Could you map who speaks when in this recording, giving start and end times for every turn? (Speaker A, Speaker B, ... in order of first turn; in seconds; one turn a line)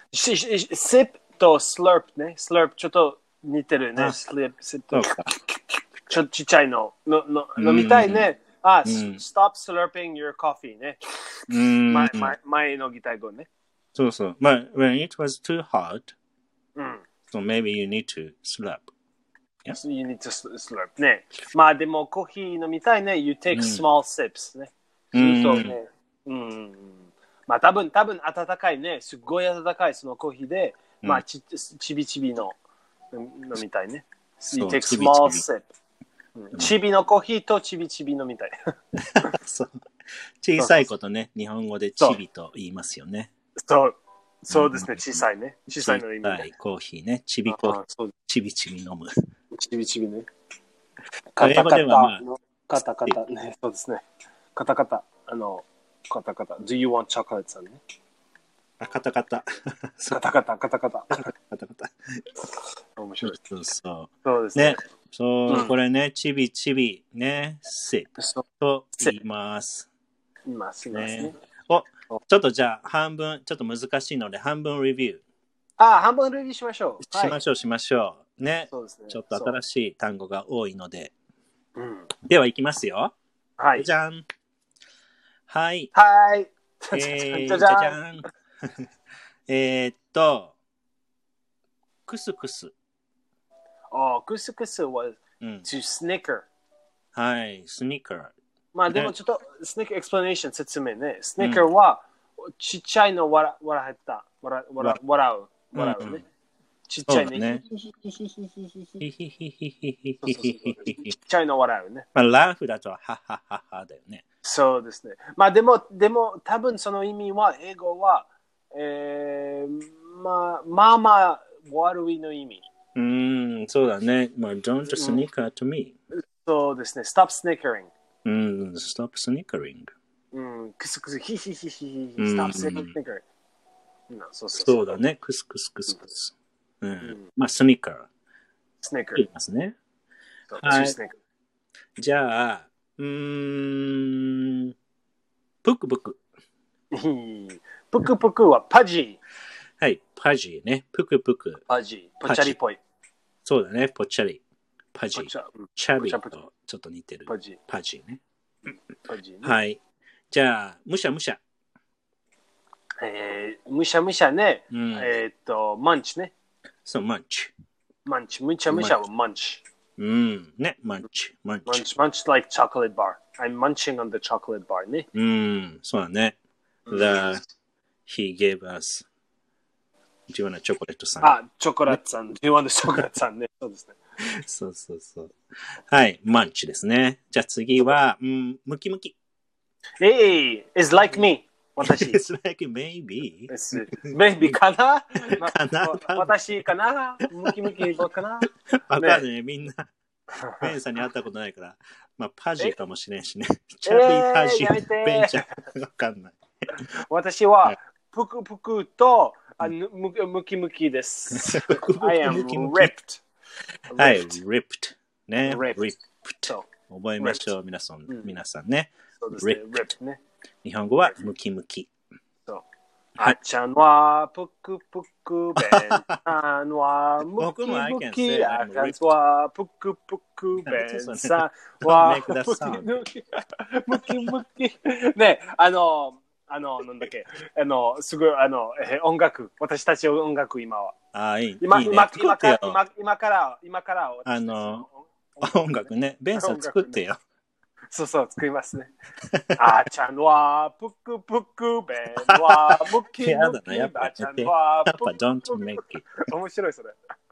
Speaker A: 0.1-11.0
Speaker B: 4.9-5.3
Speaker B: 7.6-8.3
Speaker B: 8.8-9.2
Speaker B: 11.5-12.3
Speaker A: 11.8-13.5
Speaker B: 13.9-16.1
Speaker A: 16.8-17.1
Speaker B: 17.3-18.9
Speaker A: 19.7-32.6
Speaker B: 23.5-23.8
Speaker B: 25.1-25.8
Speaker A: 33.1-35.6
Speaker B: 34.5-35.5
Speaker A: 36.4-38.5
Speaker B: 39.0-39.7
Speaker B: 40.4-43.3
Speaker A: 40.6-40.8
Speaker A: 43.6-46.5
Speaker B: 44.5-45.2
Speaker B: 45.8-49.1
Speaker A: 47.5-48.1
Speaker A: 49.5-50.3
Speaker A: 51.3-54.0
Speaker B: 51.4-52.2
Speaker A: 54.6-57.8
Speaker B: 58.8-60.3
Speaker A: 60.1-61.3
Speaker B: 61.1-62.2
Speaker A: 63.0-63.4
Speaker B: 63.2-69.9
Speaker A: 64.2-64.8
Speaker A: 65.5-65.7
Speaker A: 68.2-68.5
Speaker A: 70.5-71.4
Speaker B: 70.9-75.2
Speaker A: 75.8-77.4
Speaker B: 77.1-81.1
Speaker A: 78.7-79.6
Speaker A: 81.8-82.1
Speaker B: 82.3-83.1
Speaker A: 83.6-83.9
Speaker B: 83.8-84.3
Speaker B: 85.5-85.9
Speaker A: 85.9-88.0
Speaker B: 86.9-88.9
Speaker B: 89.5-90.5
Speaker B: 92.1-92.7
Speaker A: 93.9-96.5
Speaker B: 95.4-95.7
Speaker B: 97.2-98.3
Speaker A: 98.8-106.2
Speaker B: 101.4-101.7
Speaker B: 105.7-106.2
Speaker A: 106.9-109.0
Speaker B: 107.1-107.6
Speaker B: 109.0-111.1
Speaker A: 110.2-112.1
Speaker B: 112.2-114.2
Speaker A: 114.4-122.7
Speaker B: 123.0-126.0
Speaker A: 124.9-125.2
Speaker A: 126.2-127.9
Speaker B: 128.2-129.9
Speaker A: 130.3-133.2
Speaker B: 132.2-132.9
Speaker A: 134.1-135.0
Speaker B: 134.6-138.1
Speaker A: 137.0-137.3
Speaker A: 138.8-139.3
Speaker B: 139.2-139.8
Speaker A: 140.5-141.2
Speaker B: 140.6-141.0
Speaker B: 142.0-144.7
Speaker B: 145.6-146.2
Speaker A: 146.9-149.2
Speaker B: 149.8-151.6
Speaker A: 151.7-152.8
Speaker B: 152.3-152.6
Speaker B: 153.4-154.4
Speaker B: 154.9-158.2
Speaker A: 155.2-156.3
Speaker A: 157.3-157.6
Speaker A: 159.1-159.6
Speaker B: 159.4-159.8
Speaker B: 160.3-161.4
Speaker A: 163.0-166.3
Speaker B: 164.7-165.1
Speaker B: 166.9-167.5
Speaker A: 168.1-169.6
Speaker B: 168.7-169.0
Speaker B: 170.0-171.8
Speaker A: 171.7-175.1
Speaker B: 175.1-176.4
Speaker A: 176.9-177.4
Speaker B: 176.9-177.4
Speaker B: 178.1-179.1
Speaker B: 180.3-181.4
Speaker A: 181.2-184.0
Speaker B: 184.2-185.3
Speaker B: 185.9-189.2
Speaker A: 190.0-192.2
Speaker B: 191.8-194.6
Speaker A: 193.5-199.2
Speaker B: 195.3-196.3
Speaker B: 197.4-197.9
Speaker B: 198.7-199.9
Speaker A: 200.3-200.7
Speaker B: 200.6-206.8
Speaker A: 203.9-205.5
Speaker A: 207.1-213.2
Speaker B: 211.3-212.9
Speaker A: 213.9-214.4
Speaker B: 214.0-219.8
Speaker A: 215.4-215.8
Speaker A: 217.2-217.5
Speaker A: 218.1-218.3
Speaker A: 219.2-220.2
Speaker B: 220.6-221.9
Speaker A: 223.2-240.9
Speaker B: 225.6-226.2
Speaker B: 227.4-229.1
Speaker B: 230.6-233.0
Speaker B: 233.9-234.3
Speaker B: 241.1-242.8
Speaker A: 241.6-247.0
Speaker B: 244.3-244.9
Speaker B: 245.4-247.2
Speaker A: 247.9-248.9
Speaker B: 249.2-249.6
Speaker A: 249.6-257.0
Speaker B: 252.3-256.2